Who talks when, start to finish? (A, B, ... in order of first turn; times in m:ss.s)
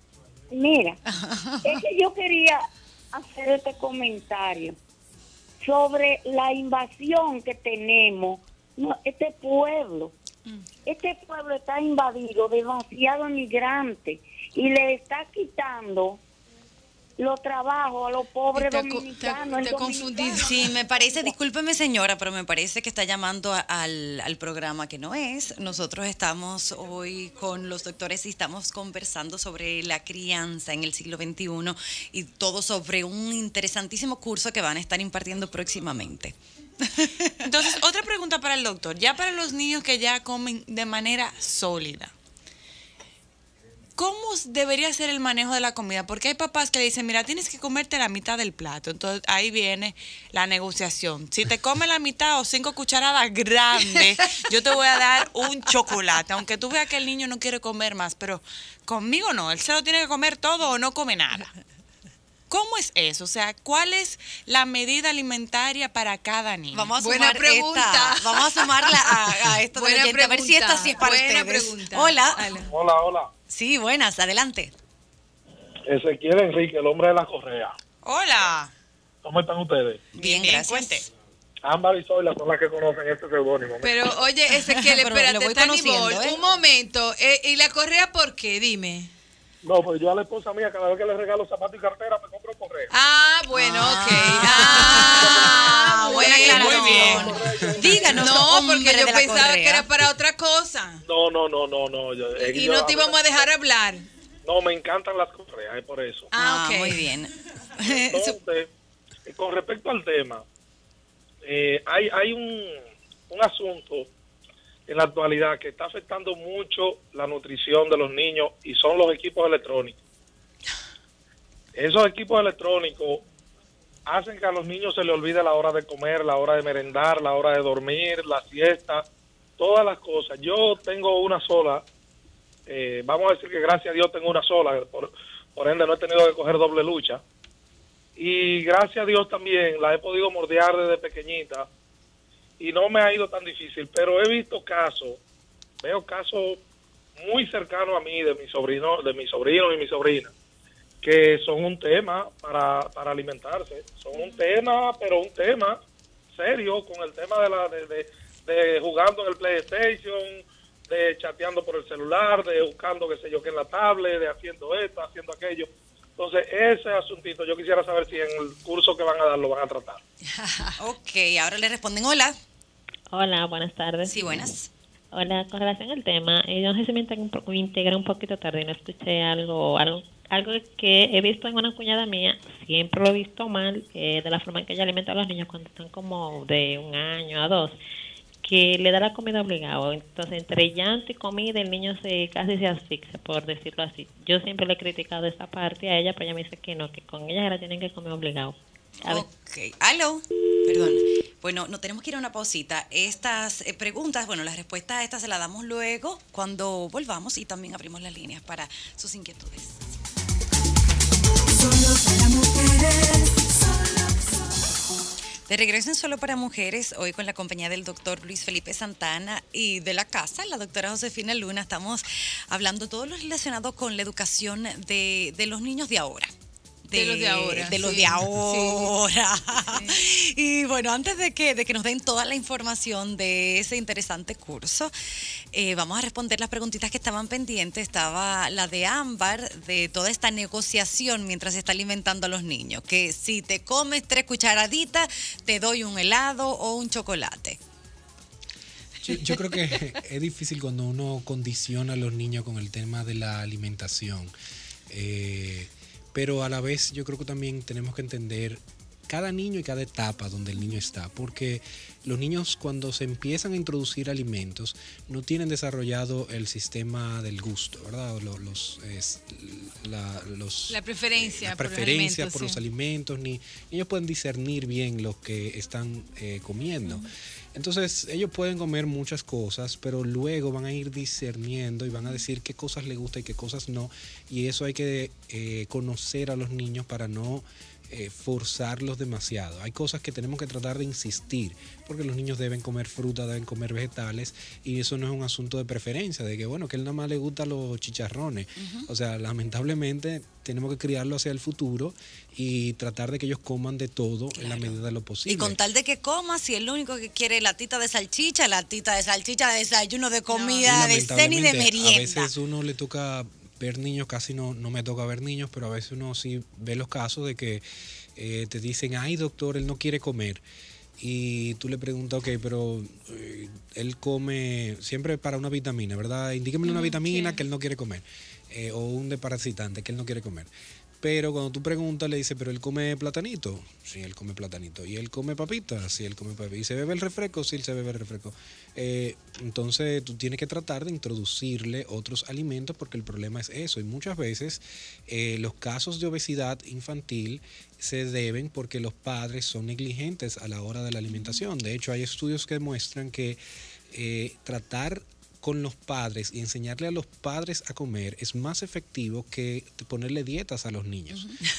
0:00.5-0:01.0 A
0:01.1-0:01.8 B
0:01.6-0:04.8 A
0:05.6-0:10.1 A
0:10.9-0:16.2 A
0:17.2-0:21.3 A
0:18.6-0:20.7 C
0:20.4-0:37.8 B
0:37.4-0:42.1 D
0:44.0-1:01.5 D
1:02.5-1:06.9 D
1:06.7-1:12.5 B
1:07.0-1:12.7 C
1:12.7-1:13.3 E
1:13.5-1:14.7 B
1:15.9-1:17.8 E
1:18.0-1:18.7 D
1:19.2-1:20.0 E
1:20.1-1:21.0 B
1:20.2-1:21.1 D
1:21.6-1:24.0 E
1:23.8-1:29.1 C
1:24.8-1:26.4 B
1:29.6-1:32.9 E
1:32.9-1:37.3 C
1:33.5-1:39.9 B
1:34.8-1:38.4 E
1:36.3-1:37.4 D
1:37.8-1:41.0 C
1:41.1-1:43.5 E
1:42.4-1:44.1 C
1:44.4-1:46.3 E
1:46.3-1:47.1 C
1:46.3-1:48.4 B
1:47.8-1:48.7 E
1:49.2-1:50.4 E
1:51.4-1:54.1 E
1:54.9-2:00.0 E
2:01.8-2:03.2 E
2:04.1-2:09.0 E
2:09.6-2:11.8 E
2:12.7-2:17.2 E
2:18.2-2:21.7 E
2:22.6-2:25.2 E
2:25.8-2:26.6 E
2:27.2-2:30.3 E
2:31.0-2:35.8 E
2:34.1-2:34.4 C
2:36.3-2:50.0 E
2:50.3-2:50.8 C
2:50.8-2:52.4 B
2:53.1-2:54.5 F
2:54.0-2:54.7 B
2:55.1-3:07.7 F
3:08.4-3:19.2 F
3:19.0-3:29.8 B
3:31.6-3:33.5 B
3:35.5-3:46.3 B
3:46.9-3:54.9 B
3:46.9-3:49.0 C
3:49.5-3:50.0 C
3:55.5-4:07.6 B
4:09.0-4:14.3 G
4:14.9-5:05.6 G
4:30.7-4:32.6 C
4:58.6-4:58.9 B
5:04.4-5:12.3 B
5:10.3-5:10.8 C
5:10.6-5:17.6 G
5:18.2-5:20.4 G
5:21.0-6:01.3 G
5:26.7-5:27.4 C